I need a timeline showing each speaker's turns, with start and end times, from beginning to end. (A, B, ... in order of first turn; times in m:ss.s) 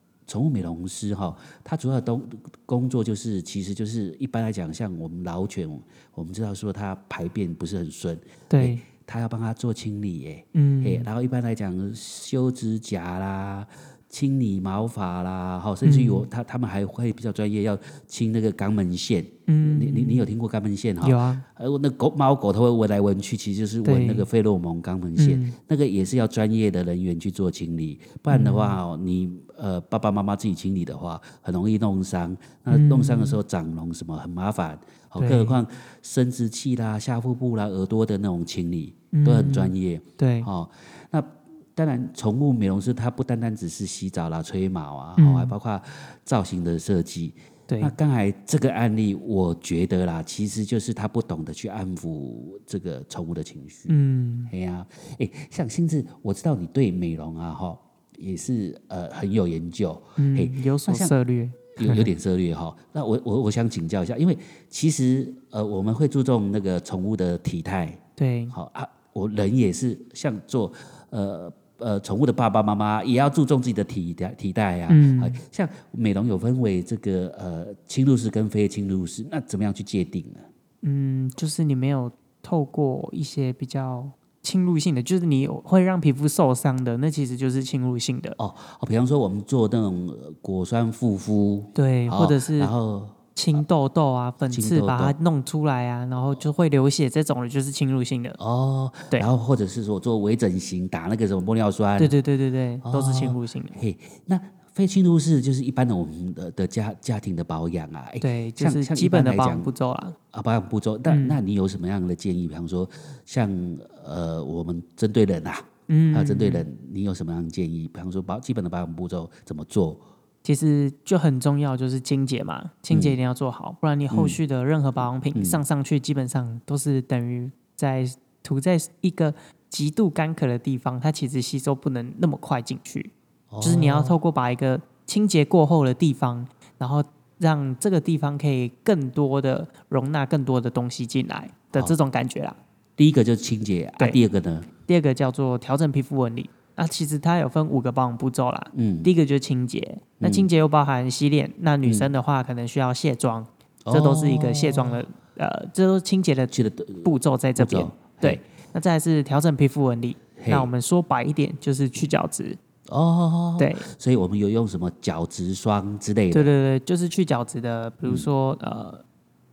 0:00.3-1:01.2 A
0:08.5-0:08.8 B
0:10.6-0:11.1 B
0:15.8-0:16.3 B
0:19.5-0:20.3 B
0:21.0-0:21.4 B
0:23.8-0:24.2 B
0:25.2-0:25.5 B
0:28.3-0:28.8 B
0:32.7-0:33.4 B
0:35.2-0:35.6 B
0:39.1-0:40.5 B
0:45.2-0:45.5 B
0:53.9-0:54.5 B
1:00.2-1:02.1 B
1:01.8-1:20.4 A
1:08.2-1:08.5 B
1:14.9-1:15.4 B
1:20.8-1:28.4 B
1:28.4-1:33.6 A
1:31.8-1:32.7 B
1:33.4-1:38.4 B
1:34.5-1:35.2 A
1:38.4-1:42.2 A
1:42.0-1:43.8 B
1:42.8-1:49.7 A
1:48.2-1:50.2 B
1:50.3-2:00.0 A
1:51.1-1:51.4 B
1:55.9-1:56.7 B
2:00.4-2:22.6 B
2:02.9-2:03.2 A
2:04.1-2:04.4 A
2:05.4-2:05.6 A
2:13.5-2:14.2 A
2:23.0-2:24.7 A
2:24.9-2:42.6 B
2:28.7-2:29.1 A
2:30.2-2:30.5 A
2:31.8-2:32.1 A
2:33.9-2:35.0 A
2:36.5-2:38.4 A
2:40.4-2:40.7 A
2:42.9-2:46.5 A
2:43.6-2:43.9 B
2:46.3-2:49.0 B